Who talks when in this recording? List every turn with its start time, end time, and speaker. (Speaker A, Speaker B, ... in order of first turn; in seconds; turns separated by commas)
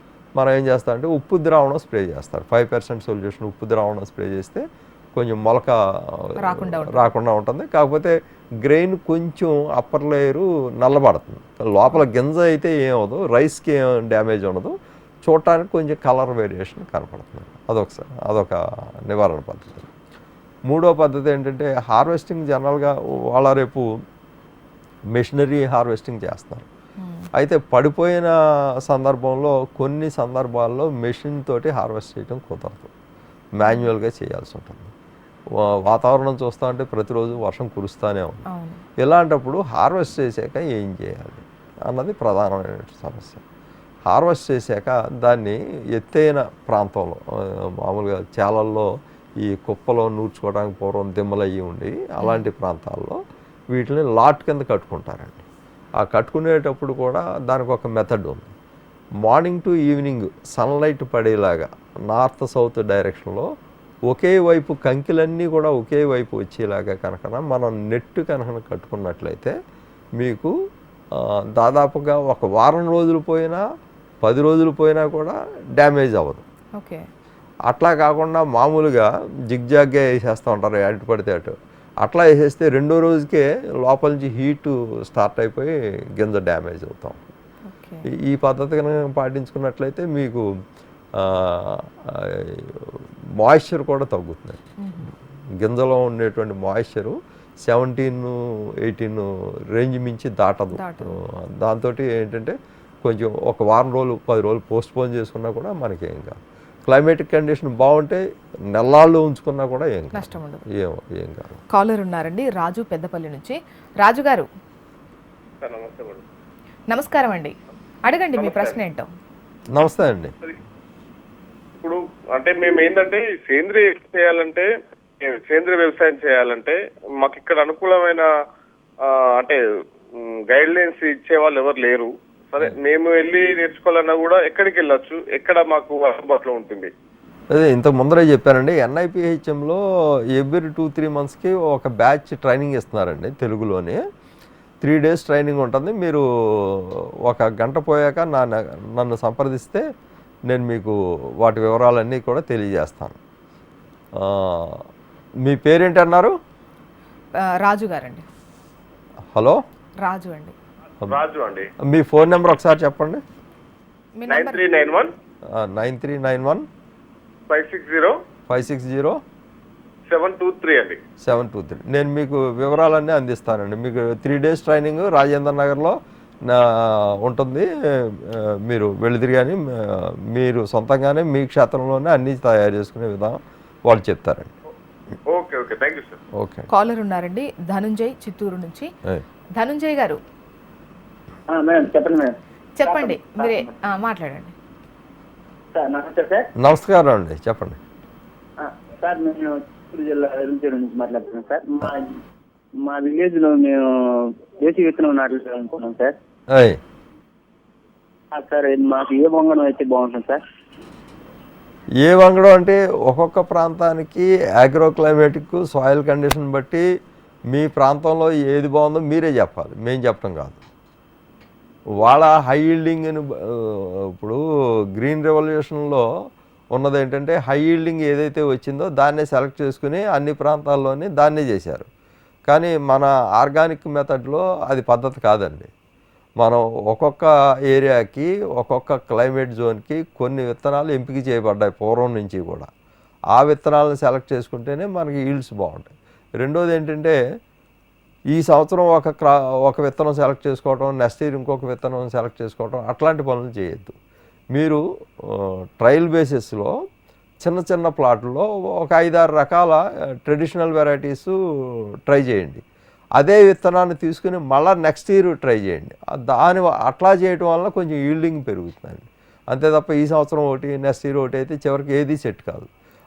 Speaker A: 0.3-19.9, Speaker B: 6.4-7.1, Speaker A: 20.7-24.0, Speaker A: 25.1-26.7, Speaker B: 27.0-27.3, Speaker A: 27.3-32.9, Speaker A: 33.5-34.9, Speaker A: 35.5-38.4, Speaker B: 38.5-38.8, Speaker A: 39.0-43.4, Speaker A: 44.1-53.2, Speaker B: 52.2-52.5, Speaker A: 53.7-55.4, Speaker A: 56.0-58.5, Speaker A: 59.2-63.5, Speaker A: 64.1-69.5, Speaker A: 70.2-70.5, Speaker A: 71.1-73.6, Speaker A: 74.2-76.4, Speaker B: 76.8-77.1, Speaker A: 77.7-87.3, Speaker B: 87.7-88.0, Speaker A: 88.1-90.4, Speaker A: 91.1-94.6, Speaker B: 94.8-95.1, Speaker A: 95.6-111.6, Speaker B: 100.7-101.2, Speaker B: 110.1-110.6, Speaker B: 111.7-114.5, Speaker C: 115.6-116.2, Speaker B: 116.9-119.1, Speaker C: 118.4-118.8, Speaker A: 119.7-120.3, Speaker C: 121.8-124.7, Speaker C: 125.2-128.3, Speaker C: 129.0-129.6, Speaker C: 130.1-136.9, Speaker A: 137.5-139.8, Speaker A: 140.3-144.0, Speaker A: 144.8-149.8, Speaker A: 150.5-153.2, Speaker A: 154.1-154.8, Speaker A: 155.4-156.3, Speaker B: 157.6-158.2, Speaker A: 159.3-159.6, Speaker B: 160.0-160.5, Speaker C: 161.0-161.7, Speaker A: 161.8-163.2, Speaker B: 164.2-165.0, Speaker C: 164.3-165.1, Speaker A: 165.5-166.7, Speaker C: 167.5-168.1, Speaker A: 168.5-169.2, Speaker C: 170.1-171.0, Speaker A: 171.2-184.5, Speaker C: 185.3-186.2, Speaker A: 186.3-186.7, Speaker B: 186.7-188.9, Speaker B: 189.6-190.2, Speaker D: 191.5-192.3, Speaker B: 192.8-194.5, Speaker D: 192.8-193.7, Speaker D: 195.7-196.5, Speaker A: 196.6-197.8, Speaker D: 198.6-202.2, Speaker D: 202.8-206.1, Speaker A: 206.5-206.8, Speaker D: 208.3-210.4, Speaker A: 212.0-216.8, Speaker A: 217.5-220.6, Speaker A: 221.9-224.4, Speaker A: 225.0-226.0, Speaker A: 226.7-231.9, Speaker A: 232.5-235.7, Speaker A: 236.4-242.7, Speaker A: 243.3-247.2, Speaker A: 248.3-253.9, Speaker A: 254.5-256.7, Speaker A: 257.4-261.4, Speaker A: 262.1-262.6, Speaker A: 263.1-272.7